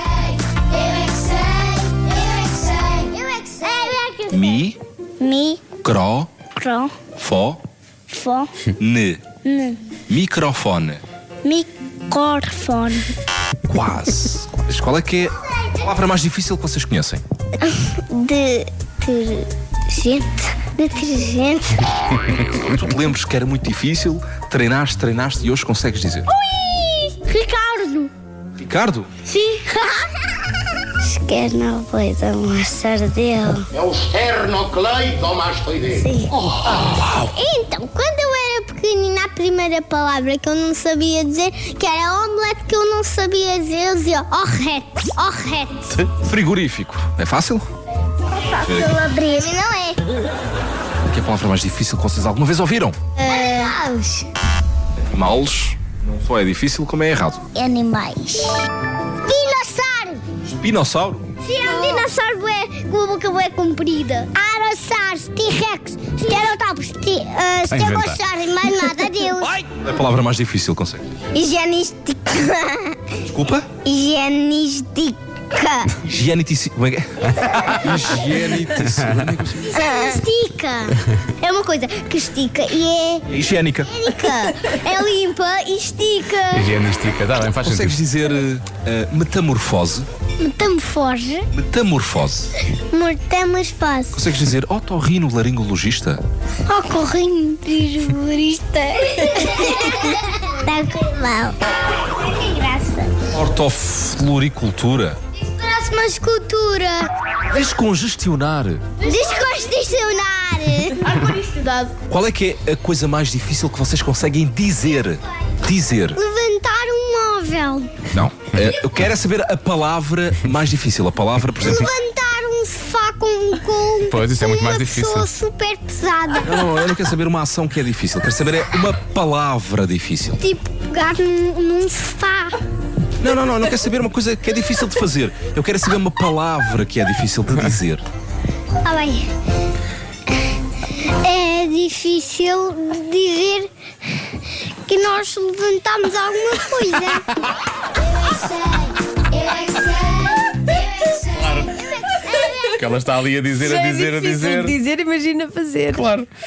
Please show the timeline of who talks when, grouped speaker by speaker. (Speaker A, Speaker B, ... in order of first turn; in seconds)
Speaker A: 0.7-4.6, 5.2-5.7, 6.5-6.9, 8.1-8.5, 9.4-9.8, 11.4-13.1, 17.6-21.9, 26.4-28.1, 29.3-30.2, 31.0-33.7, 35.8-45.9, 48.3-50.0, 53.2-54.2, 57.5-58.7, 59.2-60.2, 61.4-69.5, 71.3-73.0, 73.8-75.9, 79.7-83.2, 83.9-86.7, 90.4-91.5, 92.7-94.2, 96.7-103.2, 105.5-107.1, 109.0-111.9, 116.1-117.9, 121.6-126.8, 130.4-132.6, 138.8-139.3, 140.9-143.7, 144.9-147.3, 148.1-152.8
Speaker B: 4.3-4.8, 5.8-6.3, 7.2-7.6, 8.8-9.2, 10.1-11.0, 13.7-17.2, 22.4-26.3, 28.6-29.1, 46.1-47.7, 48.6-49.0, 51.0-53.0, 55.1-57.4, 60.4-61.3, 69.4-71.0, 73.2-73.7, 76.0-79.8, 83.3-83.9, 87.6-90.0, 91.5-92.5, 94.1-96.2, 103.3-105.2, 107.5-108.8, 112.1-116.2, 118.1-121.9, 126.4-130.4, 133.2-138.0
Speaker C: 33.8-35.8
Speaker D: 67.7-68.2, 77.4-77.9, 78.6-79.3, 86.5-88.0, 124.1-125.3, 151.3-151.7, 152.7-154.8, 155.9-156.3
Speaker E: 153.6-156.0